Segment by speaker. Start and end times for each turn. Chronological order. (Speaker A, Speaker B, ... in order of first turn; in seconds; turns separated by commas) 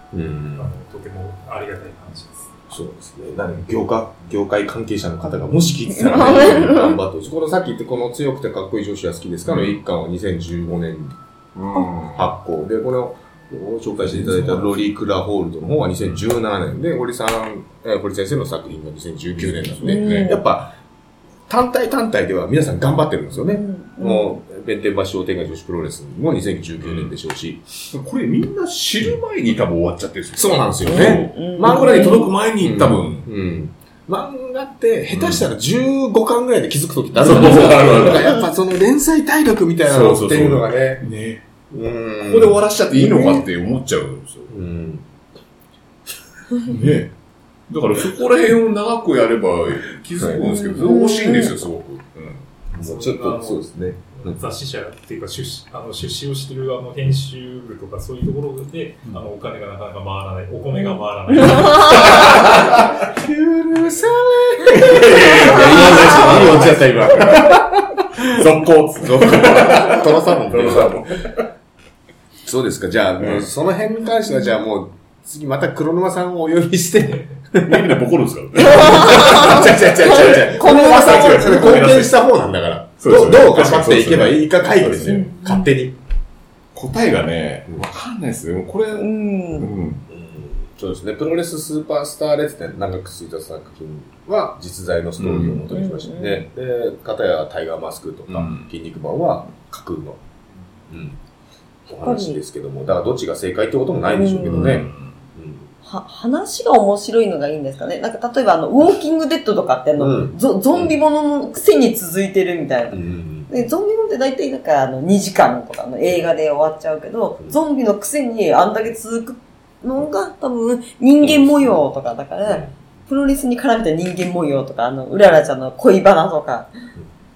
Speaker A: 0.1-0.8, Speaker B: 0.6-2.6, Speaker A: 2.7-11.2, Speaker C: 5.9-7.0, Speaker D: 9.4-9.8, Speaker D: 11.5-12.3, Speaker A: 12.1-20.8, Speaker D: 14.0-14.7, Speaker D: 19.4-20.3, Speaker C: 19.8-20.4, Speaker A: 21.5-27.6, Speaker C: 23.4-24.4, Speaker D: 26.8-27.1, Speaker D: 27.9-33.3, Speaker A: 30.3-41.0, Speaker C: 30.9-32.3, Speaker D: 35.1-35.5, Speaker D: 37.1-38.4, Speaker D: 39.8-41.4, Speaker A: 41.7-42.6, Speaker D: 42.2-44.5, Speaker C: 43.0-43.4, Speaker A: 44.5-45.0, Speaker D: 46.6-47.1, Speaker A: 46.6-47.0, Speaker D: 47.7-52.5, Speaker A: 50.2-50.5, Speaker C: 50.4-51.5, Speaker B: 52.7-62.5, Speaker A: 52.7-54.4, Speaker C: 60.8-62.1, Speaker D: 61.8-62.8, Speaker A: 61.9-68.3, Speaker D: 64.7-71.5, Speaker C: 65.5-66.4, Speaker A: 69.0-71.0, Speaker A: 72.4-78.0, Speaker D: 73.2-73.5, Speaker D: 77.6-82.2, Speaker A: 78.6-86.0, Speaker C: 78.6-81.8, Speaker D: 83.0-85.3, Speaker C: 85.0-85.6, Speaker D: 86.7-90.0, Speaker C: 88.9-89.7, Speaker A: 90.1-100.2, Speaker D: 95.2-95.7, Speaker C: 95.7-96.4, Speaker D: 98.3-98.7, Speaker A: 100.9-101.2, Speaker A: 101.9-105.7, Speaker C: 102.0-102.4, Speaker C: 104.1-104.7, Speaker D: 104.4-105.2, Speaker C: 105.8-126.7, Speaker A: 110.0-110.9, Speaker A: 112.9-113.5, Speaker A: 121.2-121.8, Speaker A: 122.4-122.7